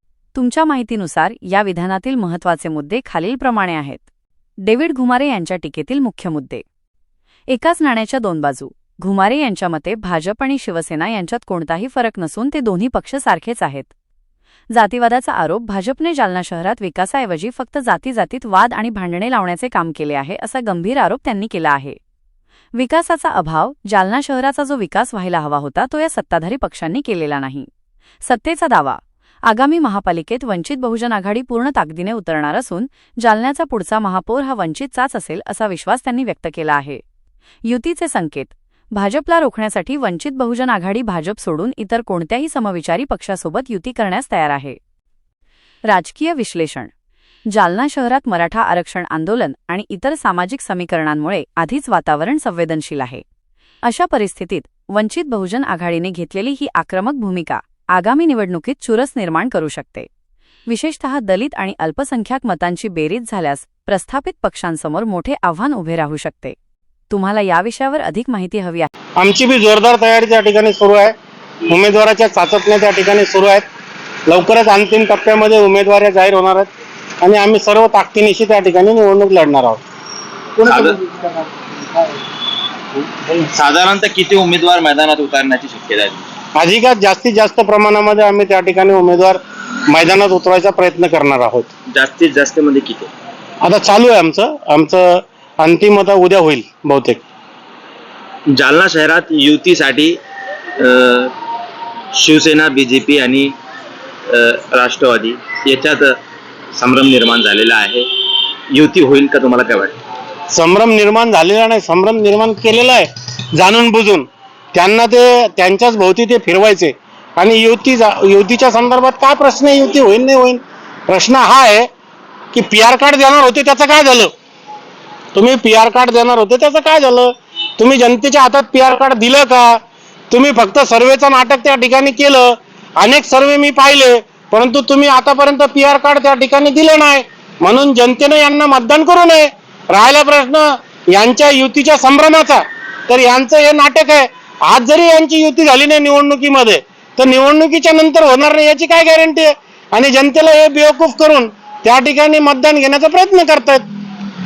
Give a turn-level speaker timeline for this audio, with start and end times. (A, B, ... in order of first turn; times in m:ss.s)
0:00.3-0:04.0 A
0:04.6-0:06.6 A
0:07.5-0:13.9 A
0:14.7-0:22.0 A
0:22.7-0:27.7 A
0:28.2-0:37.0 A
0:37.6-0:44.8 A
0:45.9-0:46.9 A
0:47.5-0:53.2 A
0:53.8-1:00.1 A
1:00.7-1:06.6 A
1:07.1-1:08.9 A
1:09.2-1:11.1 B
1:11.7-1:13.6 B
1:14.3-1:19.8 B
1:20.6-1:21.7 B
1:20.6-1:21.0 C
1:23.5-1:26.2 C
1:26.6-1:31.7 B
1:31.9-1:33.1 C
1:33.6-1:37.2 B
1:38.5-1:40.2 C
1:40.8-1:41.3 C
1:42.1-1:43.5 C
1:44.3-1:46.2 C
1:46.8-1:48.1 C
1:48.7-1:49.9 C
1:50.5-2:01.8 B
2:02.5-2:04.3 B
2:05.3-2:09.8 B
2:10.3-2:33.8 B